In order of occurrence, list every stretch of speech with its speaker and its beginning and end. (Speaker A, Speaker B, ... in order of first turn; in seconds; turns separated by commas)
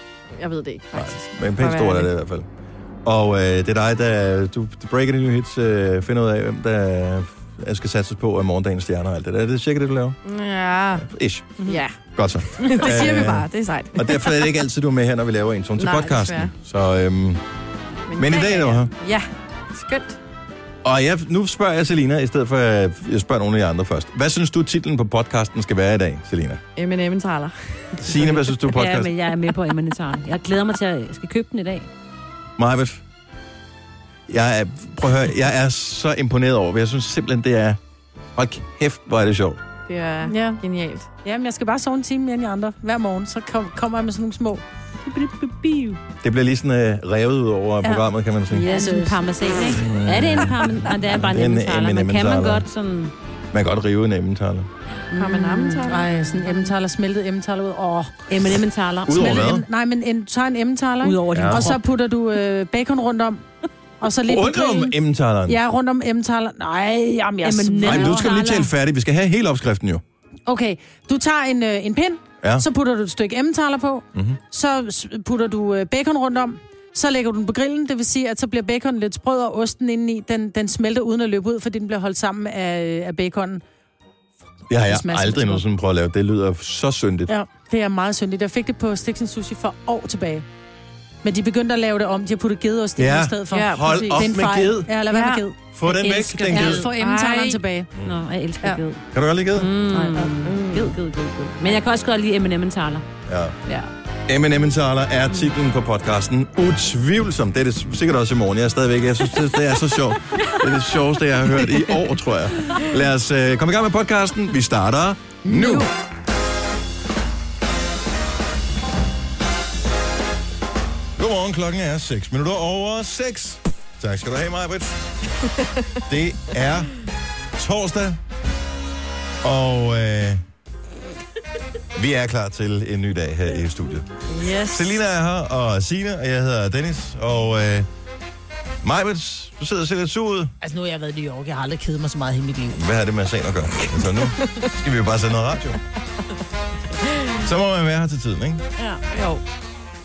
Speaker A: 0.3-2.1, Speaker B: 0.9-2.5, Speaker B: 3.0-10.2, Speaker A: 10.2-11.1, Speaker B: 11.0-11.6, Speaker A: 11.6-12.0, Speaker B: 12.1-17.4, Speaker A: 12.6-14.6, Speaker A: 15.8-16.5, Speaker A: 18.1-20.2, Speaker B: 18.1-18.9, Speaker B: 20.8-26.6, Speaker A: 26.8-28.0, Speaker B: 28.0-29.1, Speaker C: 28.1-31.9, Speaker B: 32.6-33.0, Speaker B: 34.3-37.8, Speaker B: 38.3-39.6, Speaker A: 39.9-41.1, Speaker D: 40.2-40.6, Speaker D: 41.2-46.0, Speaker B: 46.2-48.7, Speaker D: 47.8-49.2, Speaker C: 48.7-53.1, Speaker B: 49.7-52.6, Speaker B: 53.5-54.7, Speaker A: 55.1-56.0, Speaker D: 55.1-58.2, Speaker C: 55.4-56.5, Speaker C: 58.3-59.5, Speaker B: 59.0-59.6, Speaker D: 59.1-63.4, Speaker C: 61.0-61.8, Speaker B: 61.3-61.7, Speaker D: 64.0-68.4, Speaker B: 64.3-65.6, Speaker C: 67.4-68.7, Speaker B: 67.8-70.0, Speaker D: 70.5-83.6, Speaker B: 74.1-74.4, Speaker B: 84.7-87.3, Speaker D: 84.7-85.6, Speaker D: 87.3-90.4, Speaker D: 91.2-97.9, Speaker B: 93.0-94.9, Speaker A: 93.5-94.2, Speaker A: 95.1-95.4, Speaker B: 95.7-96.9, Speaker C: 95.8-96.9, Speaker A: 96.8-97.6, Speaker C: 98.0-99.0, Speaker B: 99.1-99.7, Speaker C: 99.5-103.0, Speaker D: 99.9-100.5, Speaker A: 100.4-100.9, Speaker B: 103.2-103.6, Speaker B: 104.3-115.9, Speaker C: 110.4-110.9, Speaker D: 115.5-115.8, Speaker B: 121.2-125.0, Speaker B: 126.1-126.9, Speaker B: 127.5-128.2, Speaker B: 129.4-130.4, Speaker B: 131.9-137.9, Speaker A: 134.3-135.0, Speaker B: 138.8-140.5, Speaker D: 140.6-142.8, Speaker B: 142.7-145.8, Speaker B: 147.3-148.6, Speaker C: 148.8-149.0, Speaker A: 149.1-149.4